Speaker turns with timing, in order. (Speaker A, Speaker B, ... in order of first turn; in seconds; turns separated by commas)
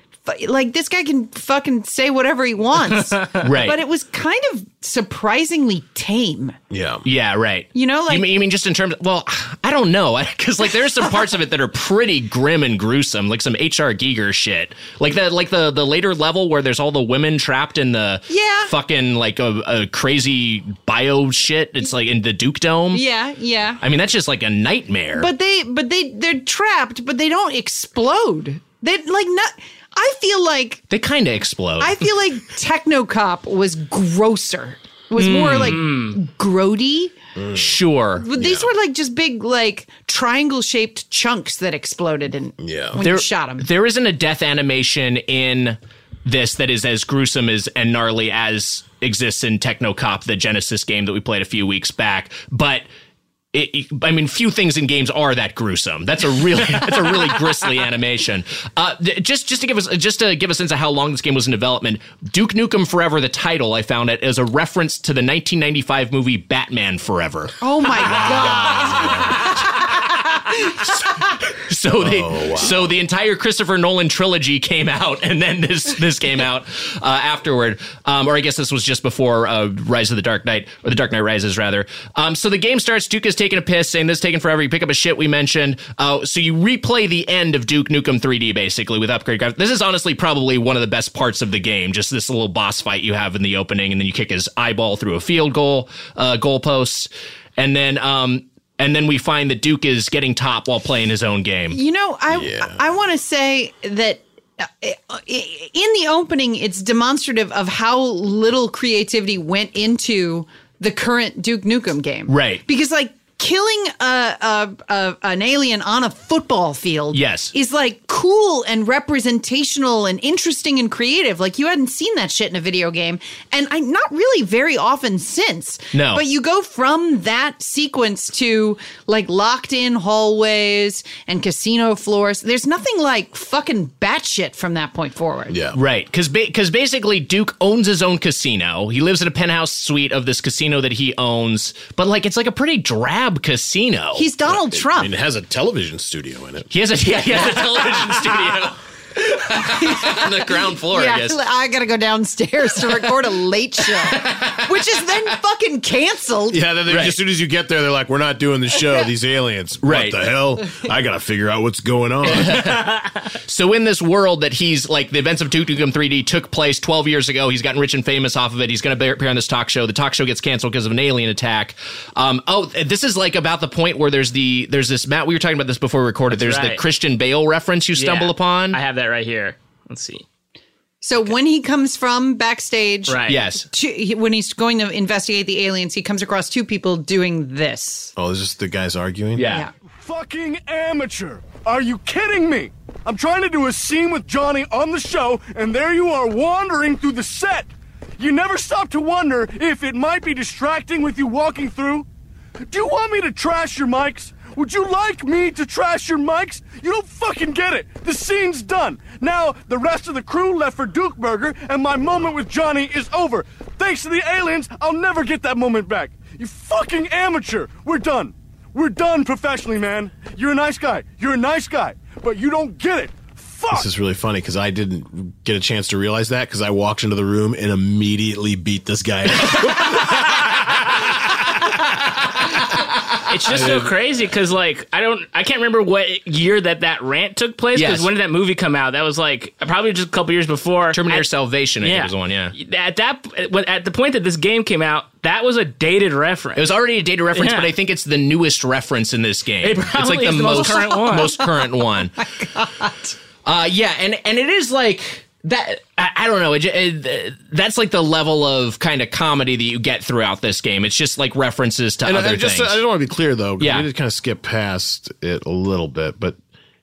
Speaker A: 0.3-6.6, Speaker B: 3.4-3.8, Speaker C: 6.7-7.0, Speaker B: 7.0-23.0, Speaker A: 7.7-8.3, Speaker A: 18.3-18.7, Speaker A: 22.9-23.8, Speaker B: 23.8-25.3, Speaker A: 25.2-30.9, Speaker B: 30.9-32.0, Speaker A: 31.8-37.1, Speaker B: 35.2-35.8, Speaker D: 35.5-36.2, Speaker C: 37.4-37.8, Speaker B: 37.5-38.3, Speaker A: 38.2-43.7, Speaker C: 38.4-38.7, Speaker C: 42.6-43.0, Speaker B: 43.0-52.9, Speaker B: 53.5-69.7, Speaker A: 67.6-70.8, Speaker C: 68.0-69.5, Speaker B: 70.8-101.8, Speaker C: 72.0-73.0, Speaker A: 101.7-135.6, Speaker C: 102.3-102.8, Speaker B: 112.3-112.6, Speaker B: 117.1-117.5, Speaker B: 125.9-126.2, Speaker C: 135.5-135.8, Speaker B: 135.7-144.3, Speaker A: 144.2-145.1, Speaker C: 144.5-146.7, Speaker B: 146.7-148.8, Speaker B: 149.3-151.4, Speaker A: 149.5-156.7, Speaker B: 154.2-154.6, Speaker C: 156.5-162.9, Speaker B: 156.9-157.2, Speaker B: 159.8-160.3, Speaker B: 162.3-178.8, Speaker D: 176.3-176.8, Speaker D: 178.0-180.2, Speaker A: 181.0-188.1, Speaker D: 183.1-183.4, Speaker B: 183.3-183.7, Speaker C: 188.2-189.5, Speaker B: 189.4-189.7, Speaker E: 190.0-202.1, Speaker E: 202.7-223.9, Speaker C: 223.7-231.4, Speaker D: 233.2-241.3, Speaker C: 233.5-233.9, Speaker B: 237.8-238.1, Speaker B: 240.9-242.6, Speaker D: 241.8-246.7, Speaker B: 246.6-252.2, Speaker D: 247.3-247.7, Speaker D: 249.6-251.4, Speaker A: 250.5-251.5, Speaker A: 252.2-253.2, Speaker B: 253.4-262.8, Speaker C: 262.0-266.4, Speaker B: 263.6-263.9